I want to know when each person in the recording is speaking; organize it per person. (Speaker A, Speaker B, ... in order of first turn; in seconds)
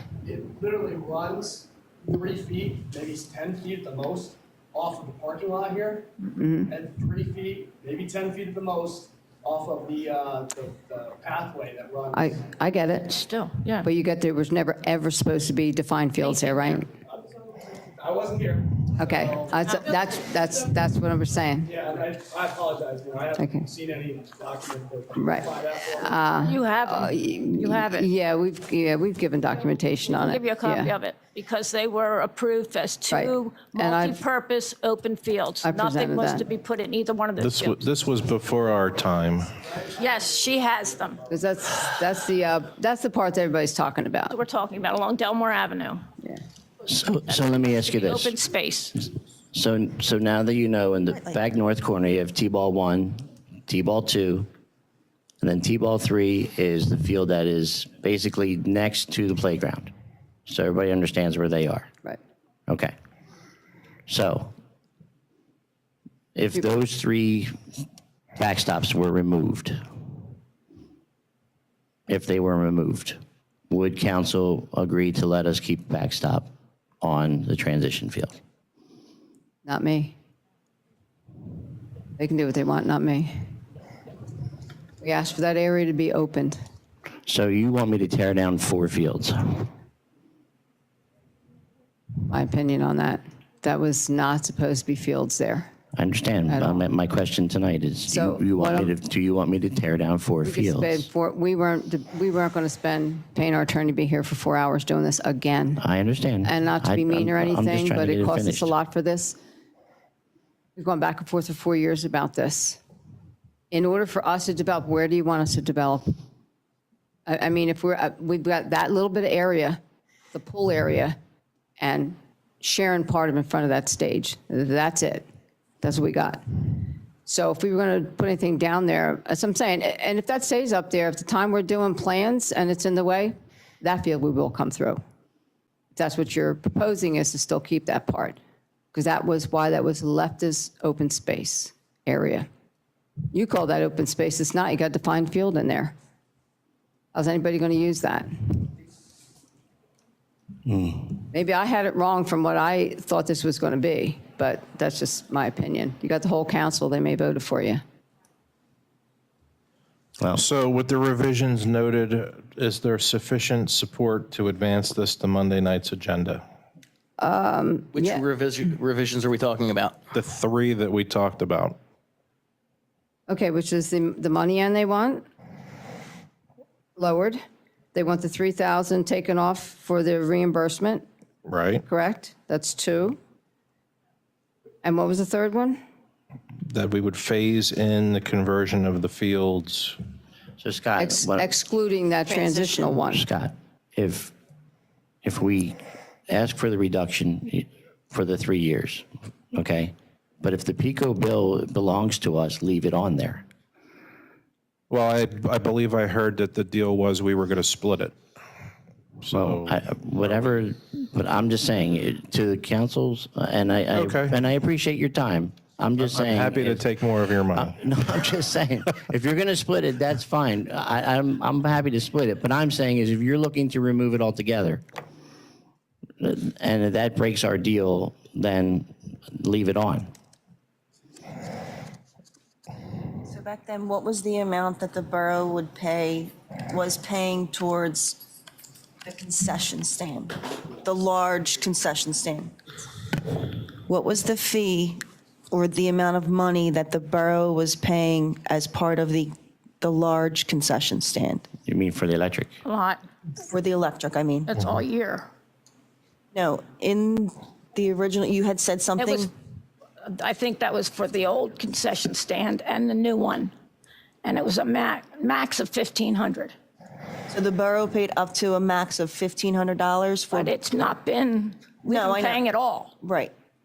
Speaker A: 0.2-6.1, 6.7-12.4, 17.0-20.7, 21.6-26.2, 39.7-41.3
Speaker B: 6.4-6.7, 12.1-13.1, 13.8-16.9, 19.0-21.7, 23.4-23.7, 25.2-30.9, 33.1-34.2, 35.6-36.5, 41.3-44.4, 79.7-80.2, 82.2-83.3, 85.0-86.6, 92.3-95.7, 96.5-96.9, 98.1-98.9, 100.4-105.8, 106.4-109.4, 110.8-112.8, 113.7-116.1, 117.3-119.8, 120.3-121.2, 121.8-125.3, 125.8-135.0, 135.9-138.4, 138.9-142.5, 143.3-145.9, 147.1-148.7, 151.3-157.8, 167.2-168.2, 173.3-175.2, 177.0-177.4, 177.9-181.1, 181.9-183.2, 184.8-185.8, 191.0-193.3
Speaker C: 13.1-13.9, 16.2-16.8, 26.4-28.1, 30.1-37.9, 40.0-41.2, 44.3-46.0, 47.3-49.0, 252.7-253.0, 254.5-255.3, 259.0-259.3, 260.0-263.5, 264.2-266.5, 270.3-272.9
Speaker D: 37.4-39.6, 160.3-166.4, 170.1-171.8, 181.4-181.8, 186.7-190.0, 204.9-208.2, 209.2-210.6, 213.9-214.4, 216.0-217.8
Speaker E: 46.9-48.4, 49.5-54.5, 55.4-59.9, 60.5-61.9, 62.7-62.9, 64.1-64.5, 66.3-67.6, 68.4-69.8, 72.1-73.2, 73.7-76.5, 77.0-78.4, 87.3-89.7, 96.0-101.1, 105.8-108.8, 150.7-151.1, 190.6-191.5, 193.1-194.3, 195.2-195.8, 196.3-203.4, 209.3-216.9, 217.5-224.8, 226.2-230.1, 251.7-252.6
Speaker F: 51.1-51.4, 192.3-193.0, 233.2-238.2, 239.0-242.5, 243.3-245.0, 245.5-251.5, 253.5-254.5, 256.3-259.3, 267.3-270.5, 271.8-272.4, 273.0-273.3
Speaker G: 167.9-170.0